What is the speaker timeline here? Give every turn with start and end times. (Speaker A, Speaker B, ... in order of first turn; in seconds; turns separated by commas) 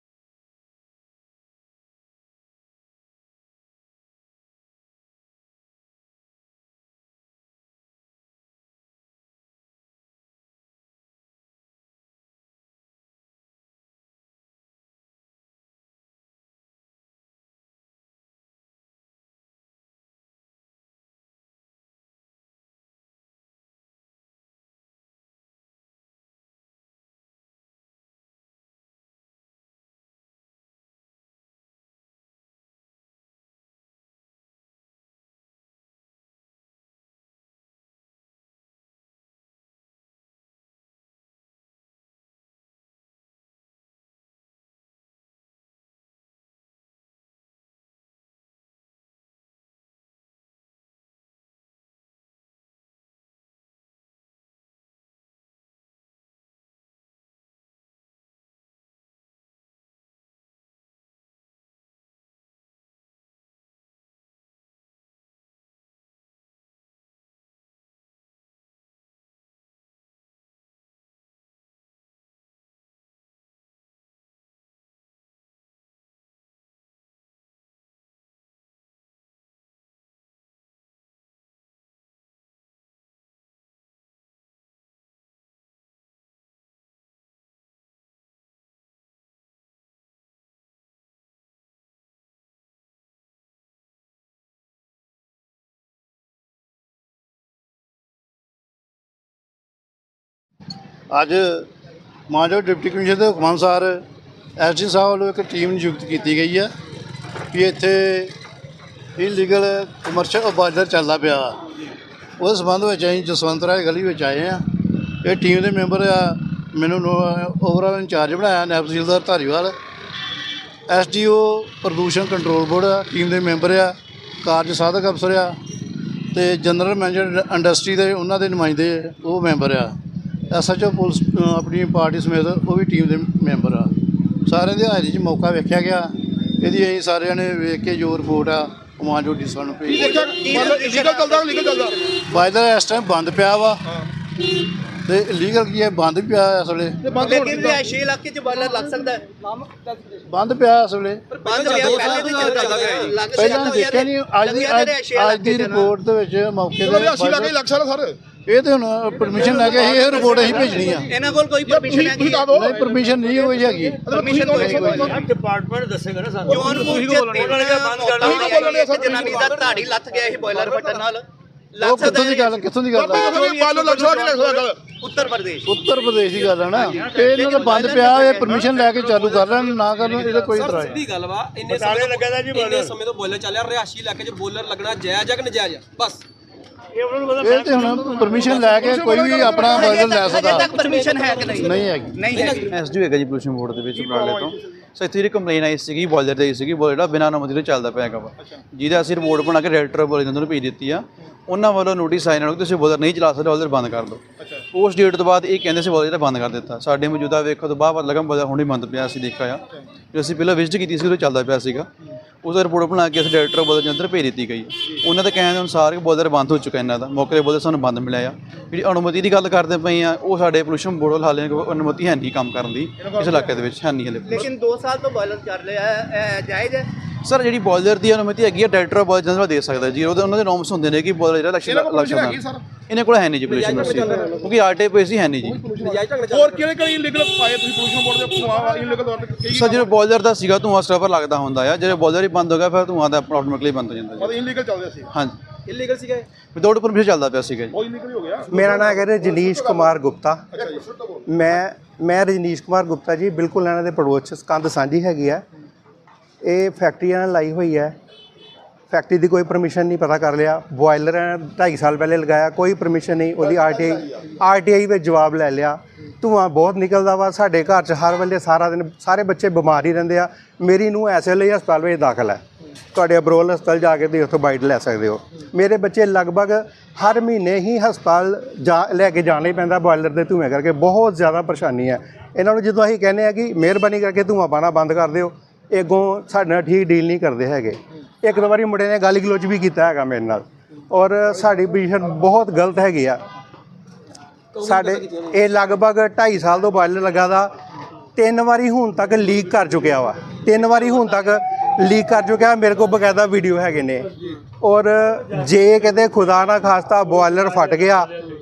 Speaker A: 101.1-101.7, Speaker A: 102.3-104.0, Speaker A: 104.6-106.7, Speaker A: 107.5-108.3, Speaker A: 109.2-111.6, Speaker A: 112.4-119.8, Speaker A: 120.9-125.6, Speaker A: 126.3-130.0, Speaker A: 130.5-140.1, Speaker B: 139.8-142.1, Speaker C: 140.0-142.0, Speaker A: 142.3-143.8, Speaker A: 144.8-147.1, Speaker B: 147.0-148.0, Speaker C: 147.1-150.2, Speaker A: 150.3-151.2, Speaker D: 151.3-153.2, Speaker C: 151.3-155.9, Speaker A: 153.3-157.6, Speaker B: 156.8-158.2, Speaker A: 158.5-161.1, Speaker B: 159.3-161.0, Speaker C: 161.0-162.6, Speaker B: 161.6-162.8, Speaker A: 162.5-164.9, Speaker B: 164.0-165.3, Speaker C: 164.0-165.2, Speaker E: 165.3-168.1, Speaker B: 166.4-167.1, Speaker C: 166.5-175.8, Speaker B: 168.2-169.7, Speaker A: 171.8-173.5, Speaker B: 172.9-174.9, Speaker A: 175.7-181.0, Speaker C: 176.8-179.1, Speaker E: 177.0-177.3, Speaker E: 178.7-179.2, Speaker D: 180.5-186.2, Speaker C: 181.7-182.9, Speaker A: 187.3-190.9, Speaker B: 188.4-190.6, Speaker C: 189.6-192.7, Speaker D: 190.8-192.7, Speaker A: 191.4-192.6, Speaker F: 192.7-211.9, Speaker B: 194.0-194.5, Speaker F: 212.4-224.5, Speaker B: 223.2-223.5, Speaker C: 224.3-226.9, Speaker F: 227.2-235.7, Speaker B: 231.7-232.6, Speaker D: 233.4-234.5, Speaker B: 233.8-234.4, Speaker B: 235.4-239.9, Speaker D: 235.8-236.7, Speaker F: 239.5-244.5, Speaker B: 244.2-245.1, Speaker F: 245.1-245.4, Speaker D: 245.7-246.3, Speaker F: 246.5-247.8, Speaker B: 247.7-250.0, Speaker G: 248.5-250.7, Speaker B: 250.5-251.4, Speaker G: 251.3-255.4, Speaker G: 256.4-258.0, Speaker G: 258.9-293.2, Speaker B: 263.5-264.0, Speaker D: 294.5-295.5, Speaker G: 294.6-297.5, Speaker G: 298.1-308.2